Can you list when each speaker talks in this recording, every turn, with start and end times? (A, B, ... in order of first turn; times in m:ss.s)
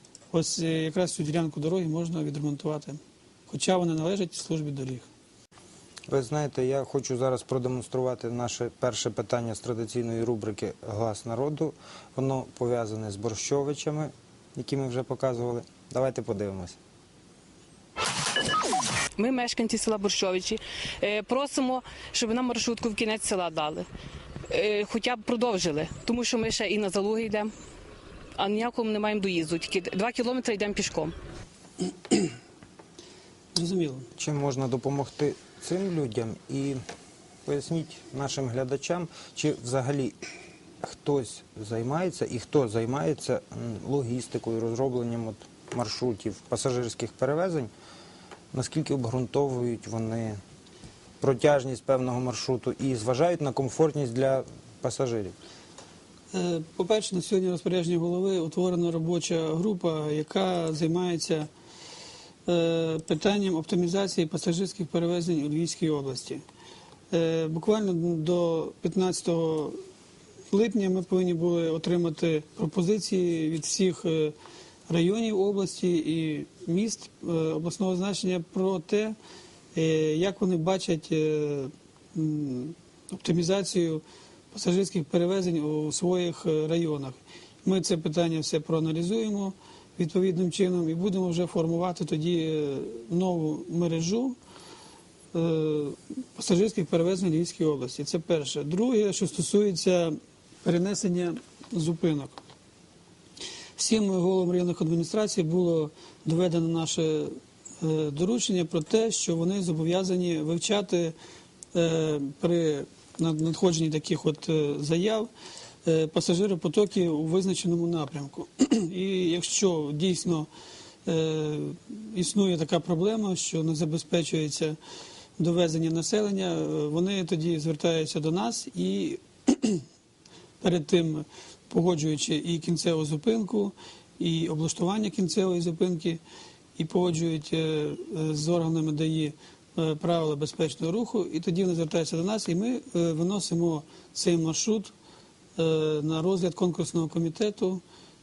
0:00.3-0:05.1 A
0:06.1-0:16.8 B
0:19.2-0:23.9 C
0:24.5-0:27.5 C
0:28.4-0:31.1 C
0:33.5-0:34.1 A
0:34.2-0:36.8 B
0:37.5-0:40.2 B
0:40.8-0:47.7 B
0:48.5-0:50.4 B
0:51.2-0:55.4 B
0:56.3-1:01.5 A
1:02.5-1:06.4 A
1:07.1-1:09.8 A
1:10.5-1:14.3 A
1:14.9-1:19.2 A
1:19.8-1:24.0 A
1:24.5-1:34.4 A
1:35.3-1:40.1 A
1:40.6-1:42.4 A
1:43.8-1:51.1 A
1:51.7-1:55.3 A
1:55.9-2:00.5 A
2:01.1-2:04.8 A
2:05.4-2:09.8 A
2:10.6-2:16.2 A
2:16.8-2:24.9 A
2:25.6-2:27.8 A